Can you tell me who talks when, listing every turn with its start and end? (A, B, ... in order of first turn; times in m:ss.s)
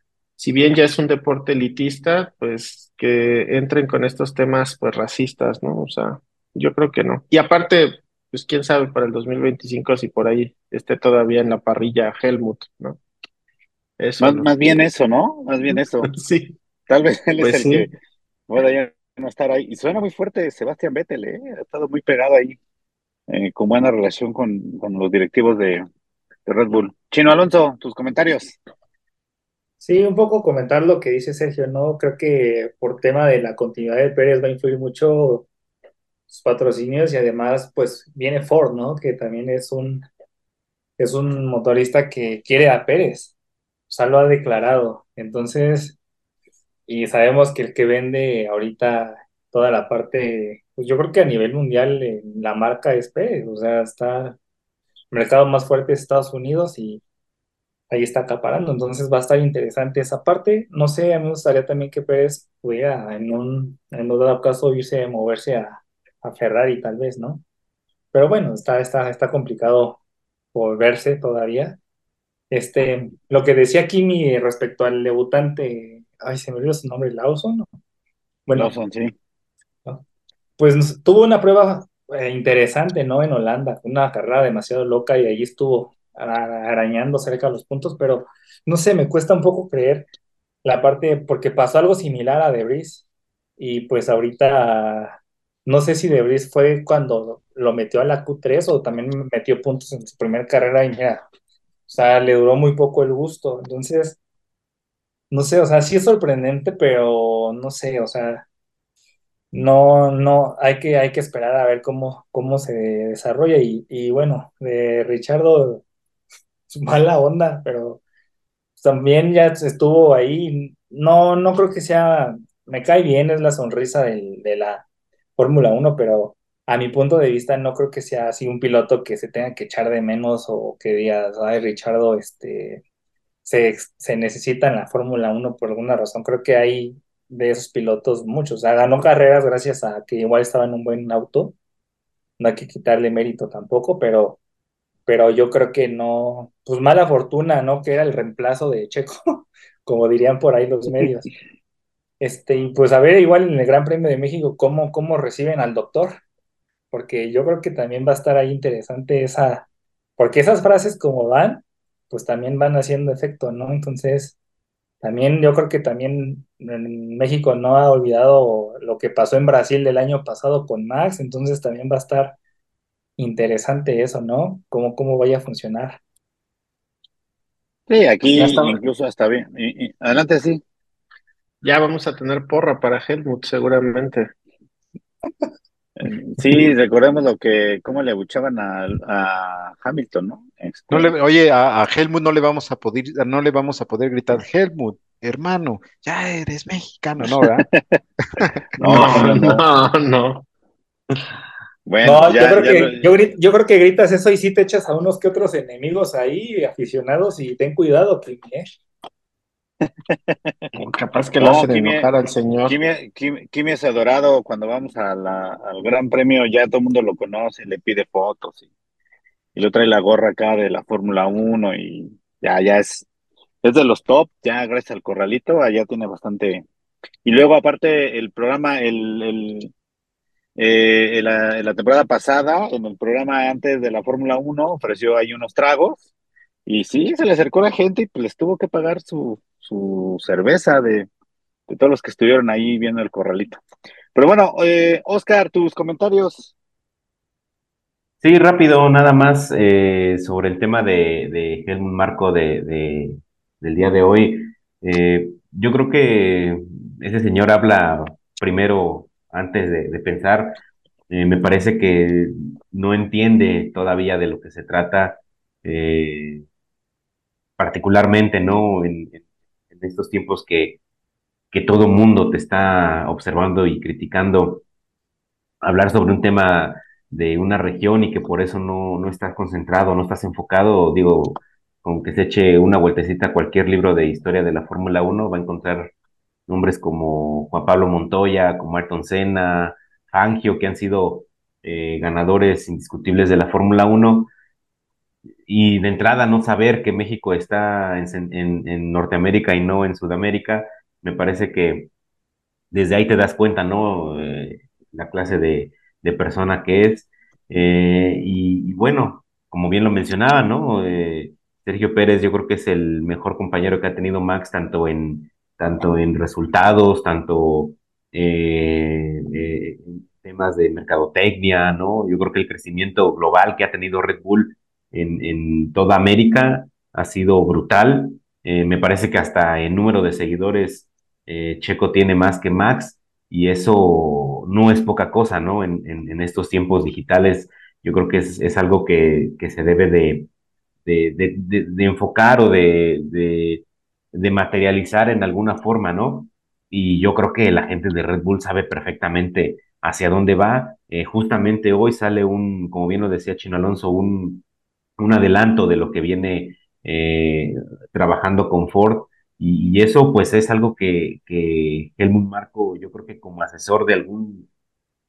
0:00.4-0:13.0 A
0:14.0-0:14.5 A
0:14.2-0:16.1 B
0:16.0-0:16.6 A
0:16.9-0:17.9 B
0:17.4-0:17.9 A
0:18.5-0:22.6 B
0:23.3-0:25.9 B
0:26.5-0:28.6 B
0:29.8-0:35.5 C
0:36.3-0:40.1 C
0:41.0-0:43.3 C
0:43.9-0:46.0 C
0:46.9-0:54.4 C
0:55.1-0:57.0 C
0:57.9-1:07.4 C
1:08.1-1:10.0 C
1:10.5-1:11.8 C
1:12.5-1:17.7 C
1:18.5-1:18.7 C
1:18.5-1:19.1 B
1:20.6-1:30.1 C
1:30.6-1:33.0 C
1:33.6-1:41.2 C
1:41.9-1:44.2 C
1:45.3-1:48.4 C
1:49.5-1:55.8 C
1:56.7-1:58.0 C
1:58.8-2:04.8 C
2:05.4-2:12.8 C
2:13.4-2:21.6 C
2:22.4-2:24.4 C
2:25.1-2:31.3 C
2:32.2-2:36.2 C
2:36.9-2:39.7 C
2:40.2-2:44.4 C
2:45.0-2:52.4 C
2:53.2-2:56.0 C
2:57.9-3:00.6 B
2:58.4-2:58.8 A
3:01.6-3:04.3 A
3:06.0-3:11.1 B
3:10.9-3:17.7 D
3:17.3-3:18.0 B
3:18.4-3:19.3 D
3:18.8-3:19.6 B
3:18.8-3:20.4 A
3:21.9-3:23.1 B
3:22.0-3:28.7 C
3:30.1-3:30.7 B
3:30.8-3:32.8 A
3:31.4-3:32.1 B
3:32.7-3:38.6 B
3:39.6-3:43.1 B
3:43.6-3:46.6 B
3:47.2-3:49.7 B
3:50.6-3:56.0 B
3:56.7-4:01.1 B
4:01.7-4:03.6 B
4:04.2-4:06.5 B
4:08.2-4:26.4 E
4:27.6-4:29.2 E
4:29.8-4:30.8 E
4:31.5-4:34.6 E
4:35.6-4:45.9 E
4:46.5-4:54.3 E
4:55.5-5:01.9 E
5:02.7-5:40.3 E
5:40.9-5:54.4 E
5:55.0-6:04.5 E